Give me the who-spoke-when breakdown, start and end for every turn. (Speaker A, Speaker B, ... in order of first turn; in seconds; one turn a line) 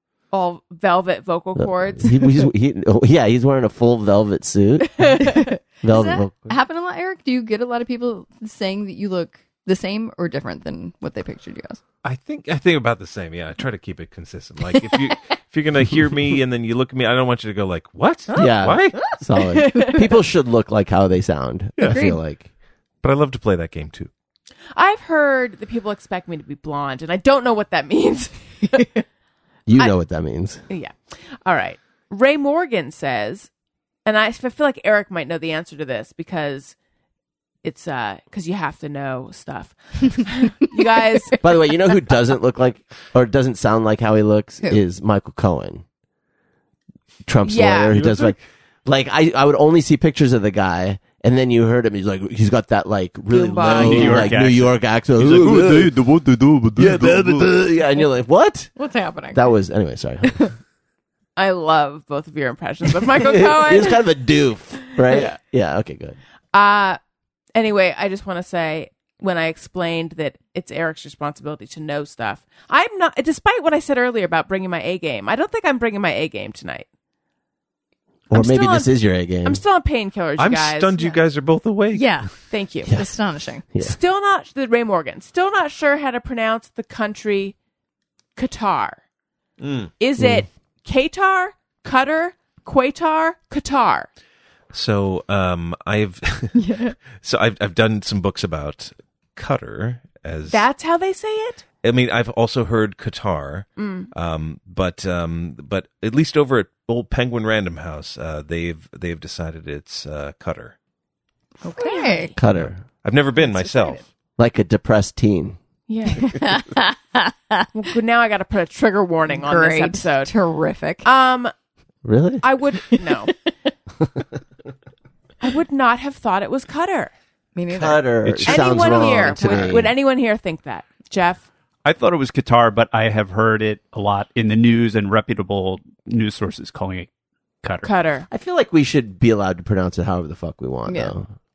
Speaker A: 0.3-2.5
Speaker B: 1.6-6.5
Speaker C: 5.2-11.8
Speaker D: 12.0-19.1
Speaker C: 18.3-20.0
Speaker B: 18.4-22.5
Speaker D: 21.8-22.0
Speaker C: 21.9-22.2
Speaker D: 23.0-24.1
Speaker A: 24.7-28.8
Speaker C: 28.7-29.0
Speaker B: 29.7-30.6
Speaker A: 30.7-33.5
Speaker A: 34.0-36.7
Speaker A: 37.6-41.4
Speaker B: 41.4-45.8
Speaker B: 47.2-56.1
Speaker A: 47.4-48.3
Speaker A: 53.3-54.3
Speaker E: 53.7-55.8
Speaker D: 55.2-57.5
Speaker B: 56.8-58.7
Speaker C: 58.8-59.5
Speaker B: 59.3-60.5
Speaker A: 61.4-64.0
Speaker B: 63.2-66.2
Speaker A: 65.1-65.3
Speaker A: 66.5-67.0
Speaker A: 67.5-76.9
Speaker A: 78.3-81.2
Speaker B: 78.3-79.6
Speaker D: 80.4-82.2
Speaker C: 81.9-82.3
Speaker A: 82.5-82.9
Speaker B: 82.8-83.1
Speaker C: 82.8-83.6
Speaker A: 83.8-87.5
Speaker A: 88.3-89.0
Speaker D: 89.6-89.9
Speaker A: 90.0-94.1
Speaker B: 90.2-90.5
Speaker D: 94.7-96.6
Speaker C: 96.5-97.0
Speaker D: 97.1-100.7
Speaker A: 100.5-101.6
Speaker D: 101.8-110.8
Speaker A: 103.8-104.1
Speaker C: 111.6-112.3
Speaker A: 111.8-112.4
Speaker B: 112.4-112.8
Speaker D: 112.5-114.0
Speaker C: 113.4-114.0
Speaker B: 114.4-115.6
Speaker A: 115.9-116.6
Speaker C: 116.2-117.7
Speaker A: 117.7-120.3
Speaker C: 119.3-121.1
Speaker A: 121.0-121.5
Speaker B: 122.0-122.4
Speaker A: 122.4-123.3
Speaker C: 123.0-123.3
Speaker A: 125.4-127.1
Speaker C: 127.5-128.1
Speaker B: 127.7-129.9
Speaker D: 128.2-128.6
Speaker A: 128.4-131.4
Speaker C: 128.7-129.5
Speaker E: 131.8-137.1
Speaker E: 137.6-137.9
Speaker A: 137.8-138.3
Speaker B: 138.3-141.3
Speaker C: 140.9-141.1